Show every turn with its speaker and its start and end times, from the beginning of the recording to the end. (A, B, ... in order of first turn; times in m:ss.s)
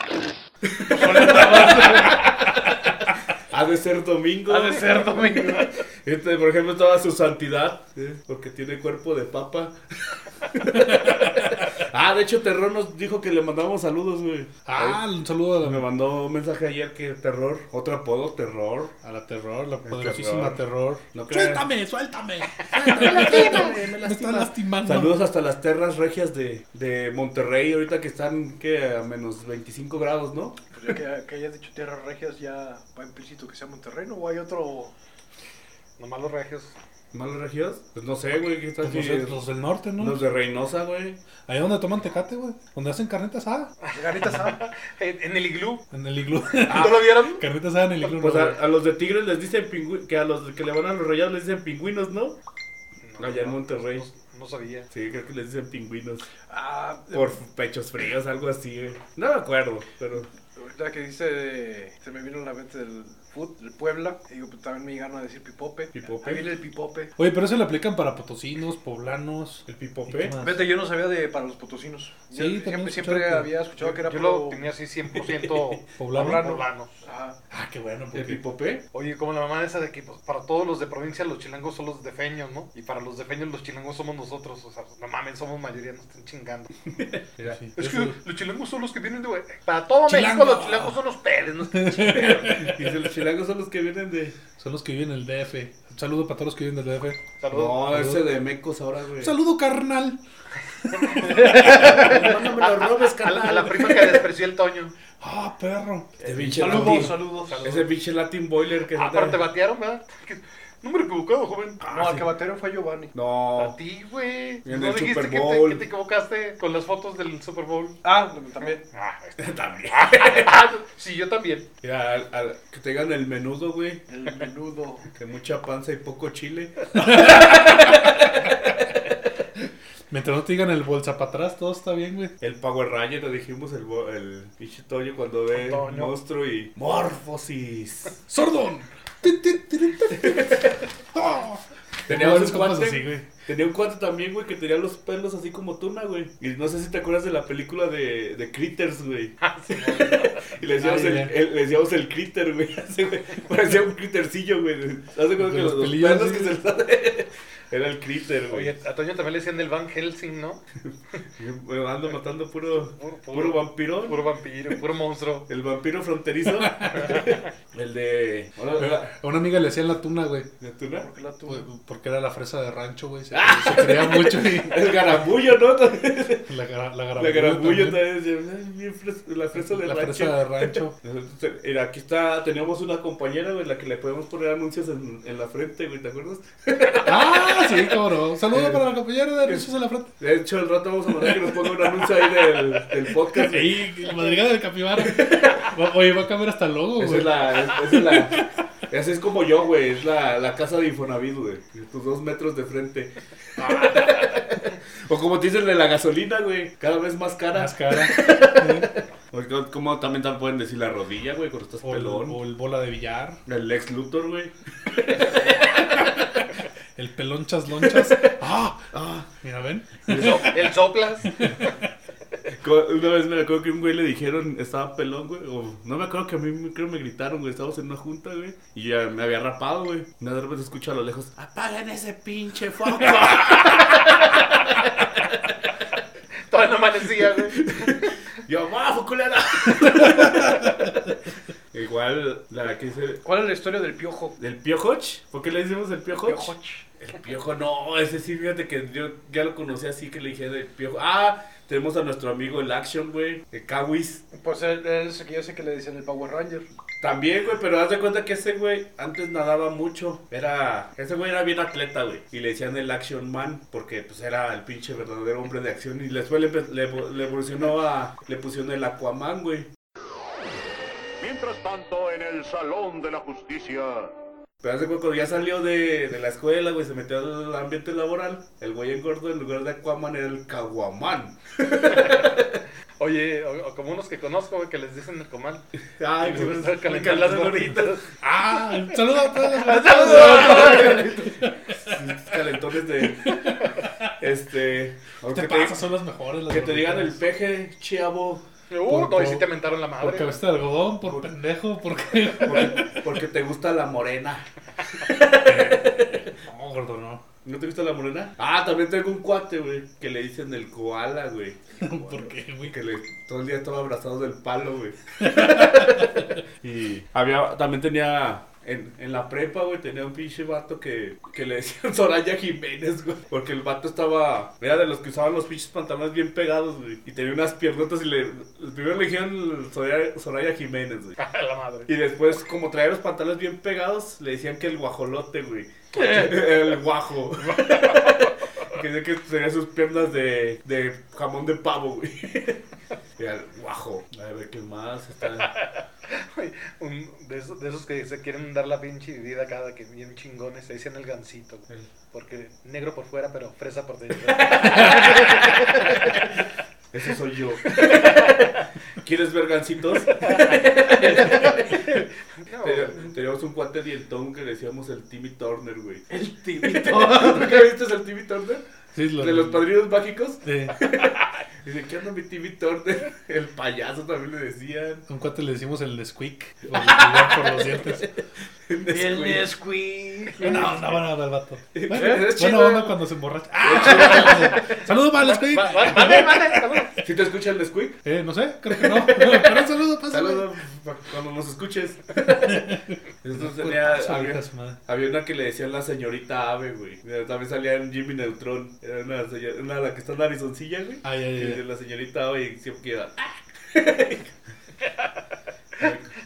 0:00.6-0:15.0 A
0:00.9-0:02.3 B
0:04.5-0:05.7 B
0:11.1-0:11.5 C
0:14.6-0:15.8 C
0:15.6-0:18.9 A
0:19.0-0:25.1 C
0:19.8-0:20.6 A
0:21.1-0:21.6 A
0:22.6-0:31.0 A
0:30.7-0:34.9 B
0:36.0-0:36.8 D
0:37.1-0:39.4 A
0:38.8-0:40.2 C
0:40.0-0:41.2 A
0:41.5-0:43.7 C
0:43.9-0:45.8 D
0:43.9-0:44.6 B
0:45.9-0:48.6 C
0:46.5-0:47.4 D
0:46.7-0:47.1 A
0:48.0-0:52.4 A
0:53.0-0:54.9 D
0:53.2-0:54.0 A
0:54.9-0:56.3 A
0:56.5-0:57.4 B
0:57.1-1:00.3 A
1:00.5-1:07.1 B
1:05.9-1:06.5 A
1:07.2-1:10.7 C
1:09.7-1:10.3 A
1:10.4-1:14.6 B
1:12.3-1:13.5 C
1:13.8-1:17.0 D
1:16.0-1:16.6 C
1:16.1-1:17.4 B
1:17.5-1:18.4 C
1:18.1-1:18.8 A
1:18.9-1:26.7 D
1:27.0-1:27.6 A
1:27.4-1:28.2 C
1:27.8-1:32.7 D
1:30.1-1:31.0 C
1:31.7-1:32.8 C
1:32.1-1:34.4 A
1:34.6-1:37.2 C
1:37.4-1:37.8 D
1:37.5-1:39.3 A
1:37.9-1:38.2 C
1:39.2-1:40.2 C
1:40.8-1:42.2 C
1:40.9-1:44.9 D
1:41.3-1:42.2 B
1:41.5-1:44.1 A
1:45.2-1:47.2 C
1:46.2-1:49.4 A
1:46.6-1:47.8 B
1:47.4-1:47.8 D
1:48.9-1:51.8 D
1:51.8-1:52.3 A
1:51.9-1:53.1 B
1:53.1-1:53.8 A
1:53.6-1:58.0 D
1:54.6-1:55.8 A
1:58.0-1:58.8 B
1:58.9-2:01.7 D
1:59.4-2:00.5 A
2:01.8-2:04.1 A
2:04.1-2:05.1 B
2:05.1-2:09.1 A
2:06.9-2:08.2 C
2:10.1-2:12.3 C
2:12.4-2:18.2 A
2:15.5-2:16.2 D
2:18.3-2:23.3 C
2:20.1-2:20.8 A
2:22.1-2:38.7 A
2:29.4-2:30.6 D
2:30.8-2:31.3 C
2:35.4-2:36.6 C
2:38.5-2:40.6 D
2:41.4-2:44.2 A
2:42.7-2:45.5 D
2:45.5-2:49.1 A
2:46.5-2:47.2 C
2:48.8-2:50.5 C
2:50.6-2:51.1 A
2:50.9-2:51.6 B
2:51.5-2:55.0 C
2:53.3-2:56.5 A
2:56.5-2:58.0 C
2:57.2-3:07.9 A
2:59.6-3:01.0 C
3:07.0-3:10.1 C
3:08.5-3:08.9 A
3:09.4-3:09.7 A
3:10.2-3:13.9 A
3:13.4-3:18.5 C
3:15.0-3:15.7 A
3:17.0-3:32.4 A
3:27.5-3:28.9 C
3:31.8-3:33.4 C
3:33.4-3:36.2 A
3:35.6-3:36.3 C
3:37.0-3:38.8 C
3:37.8-3:38.3 A
3:38.9-3:39.3 A
3:39.4-3:40.5 C
3:40.1-3:40.7 A
3:40.2-3:41.4 D
3:41.3-3:41.8 C
3:42.5-3:55.5 A
3:56.5-3:58.0 D
3:57.4-4:00.9 A
4:01.7-4:03.2 A
4:03.2-4:04.4 B
4:04.4-4:14.2 A
4:06.1-4:06.8 B
4:14.3-4:16.7 B
4:17.0-4:29.7 A
4:31.2-4:34.1 E
4:34.6-4:42.6 A
4:43.0-4:45.6 D
4:46.0-4:48.0 A
4:46.2-4:48.0 D
4:48.2-4:52.0 C
4:49.7-4:51.3 B
4:49.7-4:53.4 A
4:53.3-4:54.1 C
4:54.2-4:55.8 A
4:55.2-4:57.2 C
4:56.5-4:58.4 A
4:58.7-5:00.4 D
4:58.9-4:59.5 C
5:00.0-5:03.0 C
5:01.0-5:01.3 A
5:02.4-5:06.3 A
5:05.4-5:07.2 C
5:07.4-5:31.2 A
5:11.8-5:12.8 C
5:15.2-5:16.3 C
5:31.2-5:31.9 D
5:31.9-5:42.6 A
5:35.9-5:36.4 B
5:43.2-5:45.5 A
5:45.6-5:56.0 D
5:54.2-5:56.2 A
5:56.9-6:02.0 A
5:58.0-5:58.4 D
6:01.6-6:03.1 D
6:02.6-6:08.6 A
6:06.1-6:07.7 B
6:08.9-6:09.7 C
6:09.2-6:15.0 A
6:10.4-6:10.8 C
6:15.1-6:18.1 C
6:16.7-6:18.1 A
6:18.6-6:19.5 A
6:18.9-6:21.0 B
6:20.4-6:21.0 A
6:20.4-6:26.6 C
6:21.7-6:23.0 A
6:21.9-6:22.3 B
6:23.6-6:24.8 A
6:24.2-6:27.0 D
6:25.9-6:26.3 A
6:27.0-6:28.0 A
6:28.0-6:30.5 C
6:28.7-6:44.3 A
6:32.3-6:34.8 C
6:41.0-6:41.6 C
6:45.8-6:46.1 A